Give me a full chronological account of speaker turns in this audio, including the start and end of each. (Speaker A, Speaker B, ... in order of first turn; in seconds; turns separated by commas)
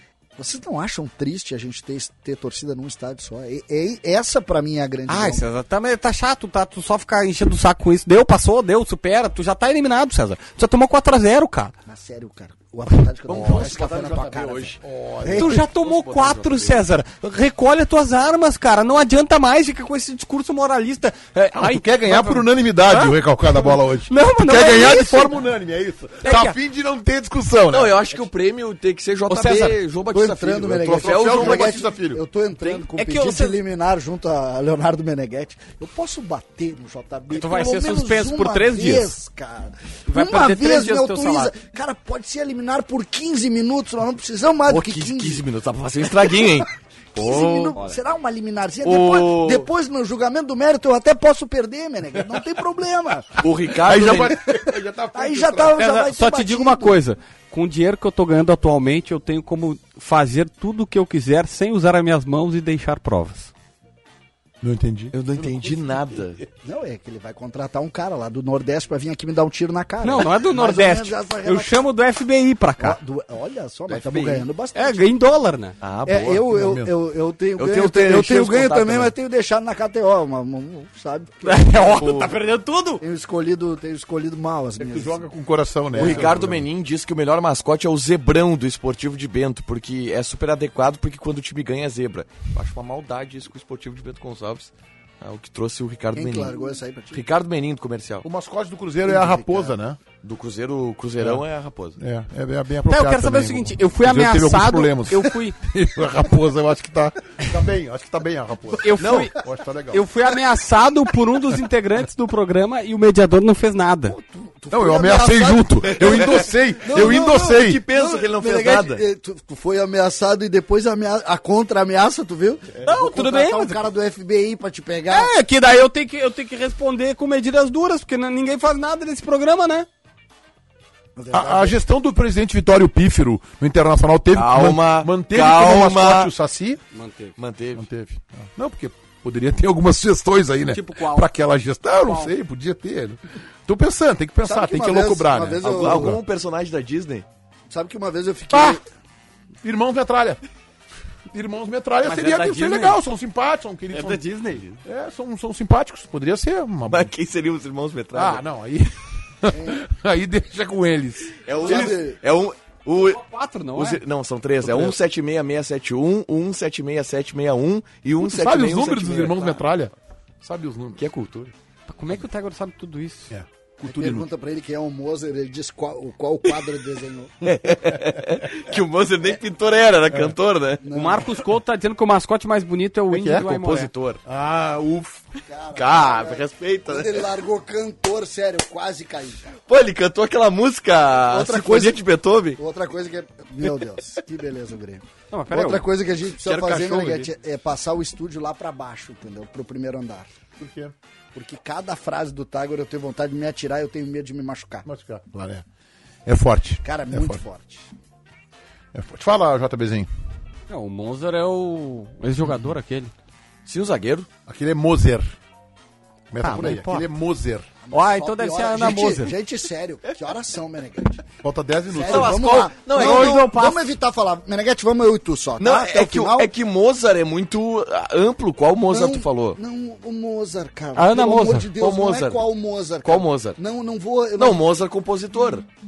Speaker A: 0.4-5.4, Speaker B: 5.1-11.7, Speaker A: 11.8-15.7, Speaker C: 13.3-14.7, Speaker D: 13.3-15.5, Speaker C: 15.3-16.8, Speaker B: 15.3-25.3, Speaker D: 21.5-28.0, Speaker B: 26.2-26.5, Speaker C: 27.7-31.8, Speaker B: 29.3-29.7, Speaker A: 29.4-45.4, Speaker D: 31.0-32.2, Speaker B: 32.6-33.6, Speaker B: 37.3-39.1, Speaker B: 40.1-41.5, Speaker C: 44.7-47.8, Speaker A: 46.1-53.4, Speaker C: 48.8-49.7, Speaker D: 53.4-55.8, Speaker C: 53.4-54.4, Speaker A: 54.1-57.0, Speaker B: 55.7-63.5, Speaker D: 64.6-65.1, Speaker C: 65.1-66.4, Speaker A: 66.6-71.8, Speaker B: 70.0-73.0, Speaker A: 72.8-75.0, Speaker C: 73.9-74.5, Speaker B: 74.7-75.7, Speaker C: 75.8-76.5, Speaker A: 76.0-82.0, Speaker D: 76.5-76.9, Speaker C: 77.6-79.1, Speaker B: 81.5-83.0, Speaker C: 81.9-82.3, Speaker A: 83.0-85.2, Speaker D: 84.8-86.6, Speaker A: 85.9-86.4, Speaker C: 85.9-96.5, Speaker A: 96.1-97.2, Speaker C: 97.1-98.2, Speaker D: 98.2-100.0, Speaker A: 99.0-99.8, Speaker C: 100.2-102.0, Speaker D: 102.0-110.0, Speaker B: 102.8-105.5, Speaker B: 108.8-109.3, Speaker C: 109.0-109.3, Speaker B: 109.9-114.1, Speaker A: 114.1-125.3, Speaker D: 114.7-117.8, Speaker C: 115.8-119.0, Speaker B: 122.8-123.8, Speaker B: 125.1-129.9, Speaker A: 131.2-131.8, Speaker D: 131.3-136.8, Speaker C: 134.3-136.3, Speaker B: 136.9-137.3, Speaker C: 137.4-137.8, Speaker D: 137.8-146.2, Speaker B: 140.7-141.3, Speaker B: 142.0-142.3, Speaker A: 144.4-146.2, Speaker C: 145.6-147.2, Speaker A: 147.7-148.8, Speaker D: 148.5-148.8, Speaker D: 149.6-150.4, Speaker D: 151.3-154.2, Speaker B: 152.0-153.0, Speaker B: 153.9-154.8, Speaker D: 154.8-157.1, Speaker C: 156.9-158.4, Speaker D: 158.1-161.9, Speaker A: 159.5-159.8, Speaker C: 161.4-163.2, Speaker A: 161.6-162.2, Speaker B: 162.9-164.0, Speaker C: 163.7-169.6, Speaker D: 164.6-164.9, Speaker D: 168.2-171.0, Speaker C: 171.0-171.5, Speaker B: 171.9-173.3, Speaker D: 173.3-174.2, Speaker A: 173.8-177.3, Speaker C: 177.4-180.8, Speaker A: 180.8-181.3, Speaker B: 180.9-183.9, Speaker D: 183.1-183.4, Speaker C: 183.4-184.2, Speaker D: 184.2-185.3, Speaker A: 185.5-189.5, Speaker C: 185.7-187.3, Speaker C: 189.7-192.6, Speaker A: 191.4-192.0, Speaker A: 192.6-200.3, Speaker B: 195.3-195.8, Speaker C: 196.4-197.3, Speaker D: 200.6-200.9, Speaker A: 201.3-204.9, Speaker D: 204.8-205.6, Speaker D: 206.2-207.4, Speaker A: 206.8-207.9, Speaker D: 208.9-210.1, Speaker B: 210.7-213.1, Speaker C: 213.7-214.3, Speaker D: 214.5-215.3, Speaker D: 216.3-217.7, Speaker B: 216.4-217.1, Speaker A: 217.8-221.2, Speaker B: 217.9-219.3, Speaker D: 221.4-222.7, Speaker A: 221.9-226.5, Speaker C: 222.0-223.4, Speaker B: 222.9-223.8, Speaker C: 225.6-229.6, Speaker A: 228.9-234.6, Speaker B: 230.9-231.7, Speaker C: 231.8-232.4, Speaker C: 233.0-233.6, Speaker C: 234.4-235.7